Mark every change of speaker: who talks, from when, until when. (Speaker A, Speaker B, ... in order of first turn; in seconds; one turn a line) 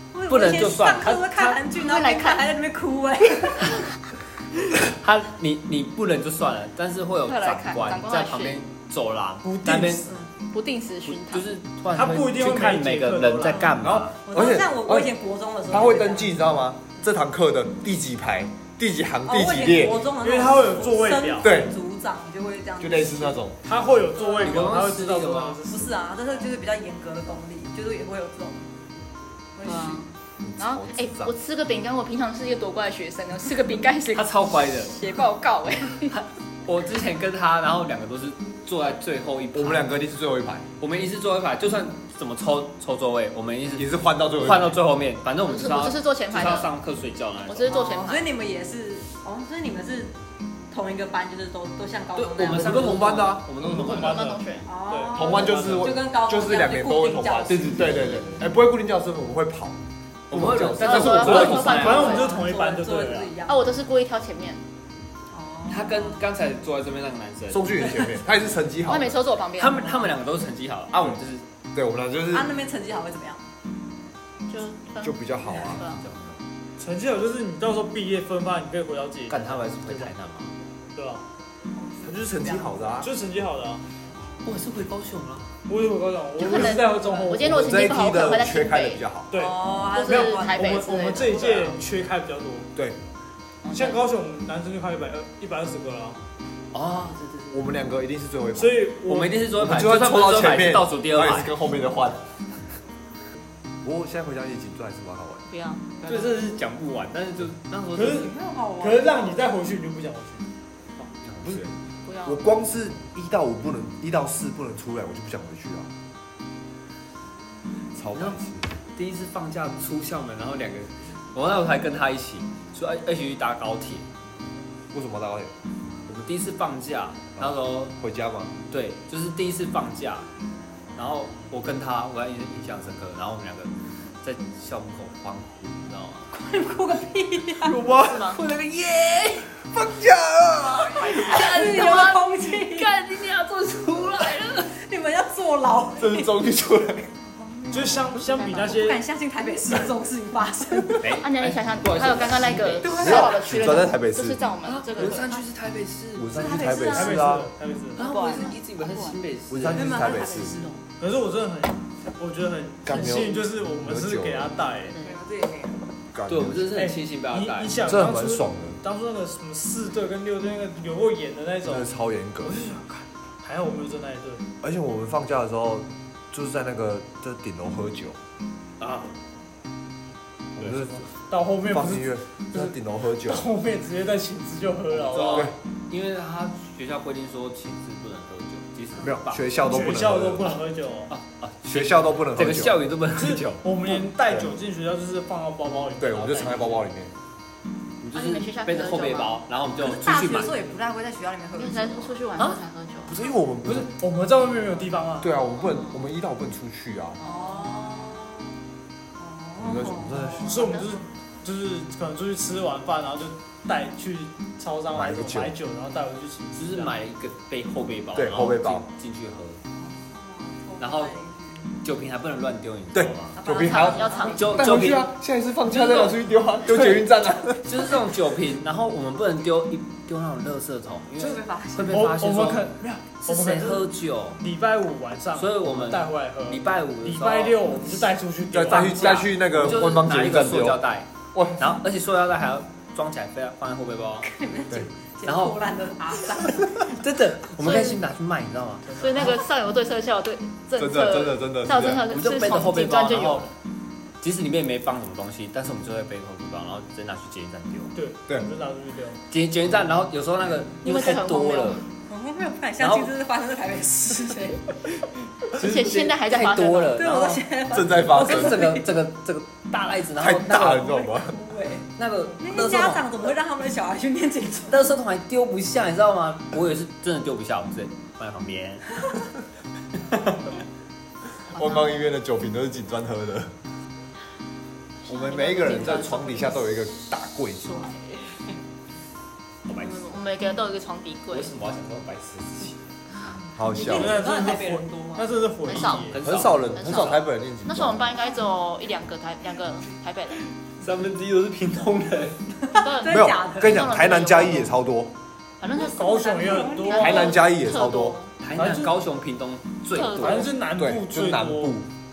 Speaker A: 0.1-3.8
Speaker B: 0.3-1.5
Speaker C: 1.4-2.5
Speaker B: 4.9-10.1
Speaker C: 7.3-8.6
Speaker D: 9.4-10.2
Speaker C: 10.5-11.5
Speaker B: 11.0-14.2
Speaker D: 11.9-13.8
Speaker E: 13.8-15.2
Speaker A: 14.2-16.4
Speaker E: 15.7-20.0
Speaker A: 19.3-23.4
Speaker D: 20.1-21.5
Speaker E: 21.4-21.7
Speaker E: 22.8-23.6
Speaker D: 23.6-25.9
Speaker A: 24.2-24.6
Speaker B: 24.4-25.6
Speaker A: 25.6-28.8
Speaker A: 29.6-30.0
Speaker C: 29.6-36.2
Speaker E: 30.4-31.3
Speaker B: 34.1-35.0
Speaker B: 36.1-40.0
Speaker E: 39.5-40.7
Speaker B: 40.8-47.7
Speaker E: 43.8-44.8
Speaker C: 45.4-46.7
Speaker C: 47.4-48.3
Speaker A: 47.7-50.1
Speaker A: 50.7-53.1
Speaker B: 52.1-54.3
Speaker E: 52.5-53.5
Speaker C: 53.6-54.7
Speaker D: 53.6-56.0
Speaker A: 54.6-58.4
Speaker E: 55.1-61.2
Speaker B: 60.3-62.2
Speaker C: 60.8-62.4
Speaker A: 60.8-63.7
Speaker D: 61.2-63.3
Speaker C: 63.5-64.6
Speaker A: 65.3-66.3
Speaker B: 65.7-67.7
Speaker E: 67.5-69.2
Speaker C: 68.8-69.9
Speaker B: 69.6-71.4
Speaker E: 71.7-72.6
Speaker A: 72.3-73.5
Speaker C: 74.5-76.1
Speaker E: 75.0-75.8
Speaker B: 75.6-76.4
Speaker D: 76.8-79.5
Speaker B: 79.3-80.5
Speaker D: 80.9-81.2
Speaker A: 81.8-82.7
Speaker D: 82.0-83.8
Speaker E: 82.1-83.1
Speaker A: 84.1-84.5
Speaker B: 84.4-85.6
Speaker D: 85.7-87.7
Speaker C: 86.4-89.0
Speaker E: 87.5-89.4
Speaker D: 89.3-92.7
Speaker A: 89.3-91.7
Speaker C: 89.9-91.3
Speaker C: 93.6-94.0
Speaker D: 93.7-96.2
Speaker B: 96.7-97.8
Speaker E: 97.5-98.8
Speaker D: 98.6-99.4
Speaker B: 99.0-101.5
Speaker E: 99.6-102.4
Speaker E: 103.8-105.5
Speaker C: 105.5-106.4
Speaker B: 106.1-108.3
Speaker D: 107.9-110.4
Speaker A: 108.1-109.4
Speaker B: 111.0-111.7
Speaker C: 112.0-112.4
Speaker E: 112.2-115.9
Speaker E: 117.9-118.7
Speaker B: 118.1-118.4
Speaker B: 118.9-124.1
Speaker E: 124.9-125.5
Speaker B: 126.1-127.9
Speaker E: 127.4-128.5
Speaker B: 128.7-130.3
Speaker B: 131.0-136.3
Speaker A: 136.3-137.8
Speaker E: 137.6-138.3
Speaker C: 138.1-138.4
Speaker B: 138.2-139.5
Speaker E: 139.6-141.2
Speaker B: 140.9-144.8
Speaker A: 141.0-142.9
Speaker A: 144.6-146.4
Speaker E: 146.0-147.1
Speaker A: 147.3-151.0
Speaker D: 147.7-149.0
Speaker C: 148.3-148.7
Speaker B: 151.0-153.3
Speaker C: 151.1-155.4
Speaker A: 152.8-153.5
Speaker E: 153.0-154.4
Speaker B: 154.7-156.3
Speaker E: 156.2-157.5
Speaker A: 156.3-157.2
Speaker D: 156.8-158.0
Speaker B: 157.9-160.1
Speaker C: 158.0-159.2
Speaker A: 158.0-158.6
Speaker E: 159.5-160.6
Speaker A: 159.7-160.9
Speaker D: 161.0-165.0
Speaker E: 162.8-164.5
Speaker C: 164.8-165.2
Speaker A: 165.0-165.9
Speaker E: 166.1-166.8
Speaker B: 166.3-167.8
Speaker D: 166.7-171.9
Speaker E: 167.8-168.8
Speaker E: 171.7-172.7
Speaker D: 172.4-174.4
Speaker E: 174.6-178.2
Speaker B: 178.8-179.1
Speaker E: 180.6-181.0
Speaker D: 180.8-182.7
Speaker E: 181.7-183.5
Speaker D: 183.2-185.5
Speaker B: 184.9-189.5
Speaker E: 185.3-185.5
Speaker E: 189.0-190.6
Speaker D: 189.7-191.1
Speaker B: 191.1-193.9
Speaker E: 191.7-192.8
Speaker D: 193.1-196.8
Speaker E: 194.3-194.5
Speaker E: 196.0-197.1
Speaker B: 198.0-200.6
Speaker C: 198.1-199.4
Speaker A: 199.8-202.2
Speaker C: 201.5-203.2
Speaker E: 203.1-203.9
Speaker D: 203.7-205.3
Speaker E: 205.2-207.2
Speaker C: 205.6-206.1
Speaker C: 207.2-207.7
Speaker A: 207.2-208.6
Speaker A: 209.2-210.7
Speaker E: 209.6-210.7
Speaker D: 210.4-216.9
Speaker C: 210.6-210.9
Speaker E: 214.9-215.5
Speaker B: 216.5-219.6
Speaker E: 218.2-218.9
Speaker A: 219.7-221.8
Speaker B: 220.8-221.2
Speaker B: 221.8-223.4
Speaker E: 222.9-228.0
Speaker A: 223.3-224.5
Speaker C: 223.6-224.7
Speaker B: 224.2-225.1
Speaker B: 225.7-226.2
Speaker B: 227.6-232.7
Speaker A: 231.2-232.1
Speaker D: 231.2-239.7
Speaker B: 233.2-234.4
Speaker B: 235.3-238.2
Speaker E: 238.5-241.8
Speaker B: 238.7-244.3
Speaker A: 244.2-247.0
Speaker B: 245.2-245.7
Speaker B: 246.8-248.9
Speaker C: 247.6-248.0
Speaker D: 248.8-249.3
Speaker C: 248.9-253.5
Speaker E: 250.8-252.1
Speaker B: 252.1-253.5
Speaker B: 254.2-257.9
Speaker D: 257.9-259.2
Speaker B: 259.3-261.8
Speaker C: 260.8-261.8
Speaker A: 262.0-264.6
Speaker B: 262.8-263.2
Speaker B: 265.5-267.4
Speaker C: 265.6-267.0
Speaker A: 266.9-268.9
Speaker E: 267.7-268.7
Speaker B: 268.1-270.9
Speaker E: 270.2-271.4
Speaker A: 270.7-271.9
Speaker B: 271.9-273.1
Speaker A: 272.4-274.9
Speaker B: 274.7-278.9
Speaker B: 280.1-280.6
Speaker E: 281.5-283.5
Speaker C: 281.5-282.0
Speaker C: 285.0-286.6
Speaker E: 285.1-287.9
Speaker A: 287.6-288.6
Speaker B: 289.6-290.2
Speaker C: 289.8-291.5
Speaker B: 291.3-292.8
Speaker E: 293.6-294.2
Speaker A: 293.7-295.4
Speaker D: 293.9-296.3
Speaker C: 295.6-296.1
Speaker B: 295.8-297.2
Speaker E: 296.2-298.2
Speaker C: 296.8-300.4
Speaker B: 300.8-302.8
Speaker A: 302.7-303.8
Speaker C: 302.8-304.7
Speaker E: 303.1-305.1
Speaker C: 305.6-308.3
Speaker D: 305.7-307.1
Speaker A: 306.4-307.4
Speaker E: 306.9-308.2
Speaker B: 308.4-310.5
Speaker D: 308.5-308.9
Speaker C: 309.9-310.6
Speaker D: 310.2-311.8
Speaker E: 310.8-311.9